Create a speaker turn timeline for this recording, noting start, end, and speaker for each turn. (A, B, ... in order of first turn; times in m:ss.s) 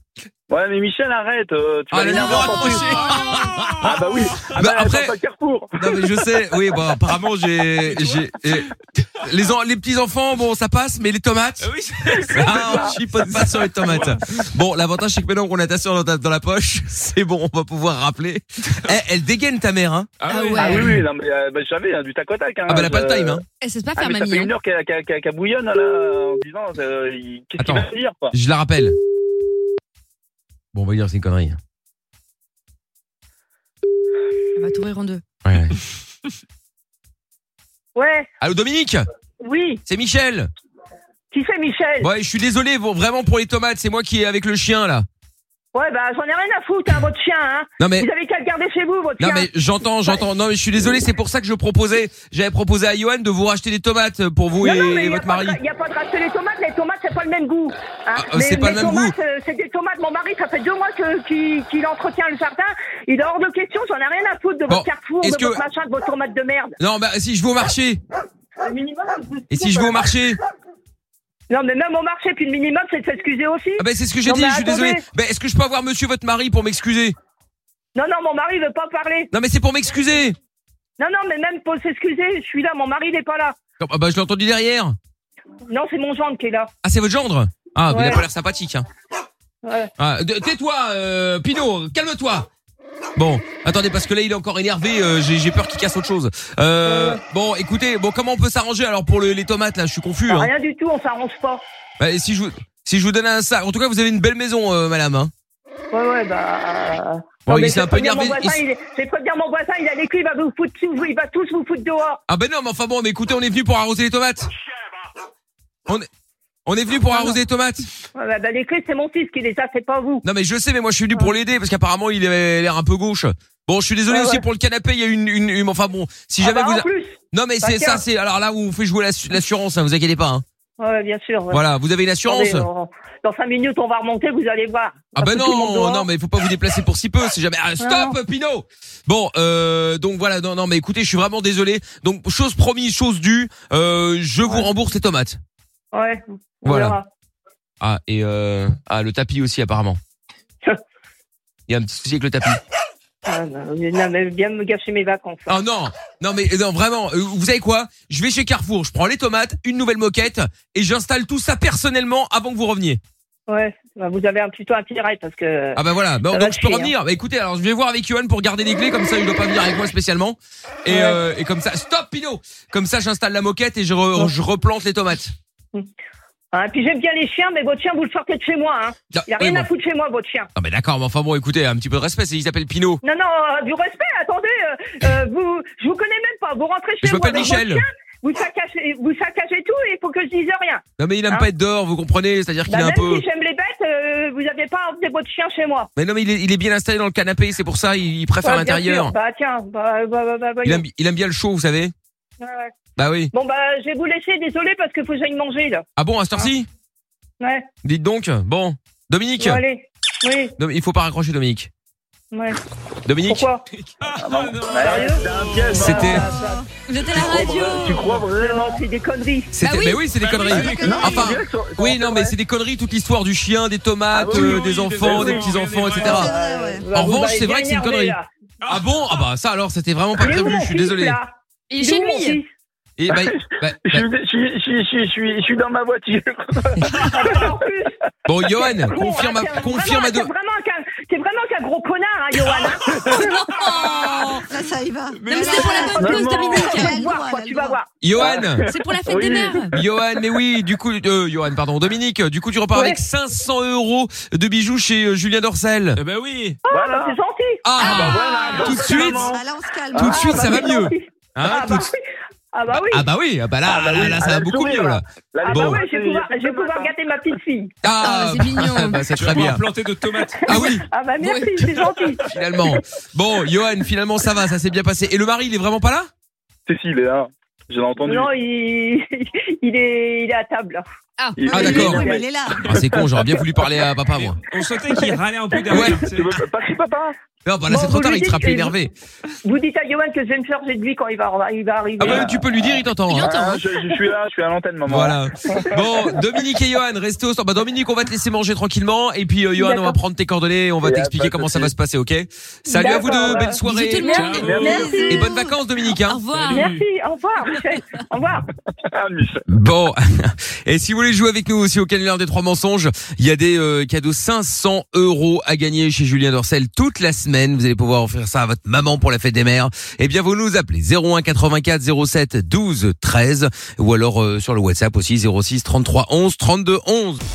0:00.5-0:03.2 A
0:01.9-0:05.1 B
0:02.3-0:04.5 C
0:03.8-0:06.2 A
0:05.8-0:11.7 B
0:11.6-0:14.2 C
0:12.3-0:20.1 B
0:12.3-0:12.9 A
0:18.7-0:19.0 C
0:20.2-0:21.0 C
0:20.3-0:21.0 D
0:20.6-0:23.4 A
0:22.7-0:23.4 B
0:23.6-0:24.6 D
0:24.0-0:28.3 A
0:27.6-0:29.0 B
0:30.7-0:31.6 B
0:34.6-0:35.2 D
0:35.4-0:35.8 B
0:38.0-0:38.3 E
0:38.4-0:39.0 B
0:39.4-0:39.8 E
0:39.9-0:40.5 B
0:41.3-0:42.1 E
0:42.0-0:45.1 B
0:45.7-0:49.5 E
0:47.8-0:48.1 B
0:49.2-0:55.6 B
0:54.6-1:06.8 E
0:58.2-0:59.2 B
1:04.7-1:05.6 B
1:06.8-1:08.0 B
1:08.6-1:10.1 E
1:09.5-1:10.4 B
1:11.5-1:15.0 E
1:13.8-1:17.2 B
1:18.0-1:19.3 E
1:19.3-1:20.4 B
1:21.0-1:23.6 E
1:23.8-1:25.0 B
1:25.7-1:26.7 E
1:26.8-1:28.9 B
1:27.9-1:28.2 E
1:29.6-1:29.9 E
1:30.0-1:32.5 B
1:33.2-1:40.5 B
1:36.8-1:37.2 E
1:40.3-1:41.6 E
1:42.0-1:45.3 B
1:45.9-1:52.2 E
1:47.5-1:48.6 B
1:52.3-1:54.5 B
1:56.7-1:57.8 B
1:57.1-1:57.4 E
1:58.2-2:00.2 E
2:00.2-2:10.4 B
2:04.1-2:04.4 E
2:06.4-2:08.0 E
2:10.8-2:11.6 E
2:11.5-2:12.7 B
2:12.2-2:16.1 E
2:15.2-2:25.4 B
2:17.8-2:18.2 E
2:25.9-2:27.1 E
2:26.6-2:27.0 B
2:27.8-2:30.0 B
2:31.7-2:32.6 B
2:33.2-2:35.6 E
2:35.5-2:43.0 B
2:43.5-2:46.9 E
2:45.8-2:55.3 B
2:50.9-2:51.2 E
2:56.5-3:00.5 E
2:59.1-2:59.7 B
3:00.6-3:03.0 B
3:03.0-3:11.5 E
3:07.0-3:07.8 B
3:11.0-3:13.2 B
3:12.7-3:15.9 E
3:16.0-3:19.2 B
3:18.4-3:20.8 E
3:20.6-3:21.9 B
3:22.4-3:22.7 E
3:23.0-3:23.3 B
3:23.3-3:25.8 E
3:26.0-3:26.7 B
3:27.4-3:27.7 E
3:27.8-3:29.6 B
3:29.4-3:30.6 E
3:30.6-3:31.7 B
3:32.3-3:32.6 E
3:33.1-3:33.5 B
3:33.2-3:33.6 E
3:33.7-3:36.1 C
3:34.1-3:36.2 A
3:34.8-3:36.6 E
3:35.7-3:36.7 F
3:35.7-3:36.3 B
3:36.9-3:38.2 D
3:37.0-3:38.8 A
3:37.4-3:39.6 E
3:39.5-3:46.3 B
3:39.6-3:40.0 D
3:40.2-3:41.3 C
3:40.5-3:41.2 F
3:40.6-3:42.3 A
3:44.1-3:45.5 A
3:44.2-3:46.2 C
3:46.0-3:48.3 E
3:46.0-3:46.9 F
3:46.9-3:48.2 B
3:48.6-3:48.9 C
3:48.7-3:51.2 B
3:50.2-3:52.5 E
3:51.7-3:52.4 D
3:53.0-3:54.0 B
3:53.9-3:57.6 A
3:56.9-3:57.2 C
3:57.0-3:57.9 E
3:58.3-4:00.3 B
3:58.6-4:03.3 E
4:02.6-4:04.3 C
4:03.0-4:03.2 A
4:03.2-4:04.4 D
4:04.2-4:07.8 F
4:05.2-4:06.6 C
4:05.3-4:07.1 D
4:05.9-4:06.9 A
4:06.9-4:08.5 E
4:08.0-4:08.6 B
4:08.2-4:09.8 A
4:08.7-4:09.8 D
4:09.7-4:16.0 B
4:12.7-4:13.0 E
4:16.0-4:16.6 C
4:16.6-4:17.8 E
4:16.7-4:17.2 A
4:17.6-4:19.4 B
4:17.8-4:18.8 D
4:17.8-4:19.4 A
4:18.4-4:20.6 F
4:19.9-4:22.0 E
4:20.0-4:21.9 B
4:20.0-4:20.4 A
4:22.5-4:23.1 E
4:22.7-4:25.8 B
4:23.6-4:27.4 A
4:25.4-4:27.7 E
4:27.8-4:29.6 B
4:27.9-4:29.1 D
4:29.2-4:30.8 C
4:30.2-4:32.8 E
4:30.5-4:30.9 B
4:31.2-4:32.1 D
4:32.2-4:36.1 B
4:36.7-4:38.3 A
4:38.0-4:40.8 E
4:41.2-4:42.2 D
4:41.4-4:43.5 A
4:41.5-4:42.7 F
4:41.6-4:42.1 B
4:42.6-4:44.4 B
4:44.2-4:46.4 C
4:44.9-4:45.2 E
4:45.7-4:46.0 B
4:45.7-4:47.2 A
4:47.4-4:48.9 B
4:47.7-4:48.8 E
4:49.4-4:52.4 E
4:52.0-4:53.4 B
4:52.0-4:52.3 A
4:53.1-4:53.8 D
4:53.2-4:56.1 A
4:54.9-5:06.2 B
4:59.6-5:00.0 E
5:00.8-5:01.7 A
5:02.7-5:05.1 E
5:02.8-5:03.4 A
5:03.6-5:06.7 D
5:04.1-5:05.0 C
5:04.3-5:05.3 A
5:06.3-5:06.8 C
5:06.5-5:08.5 E
5:08.9-5:09.4 A
5:09.5-5:27.2 B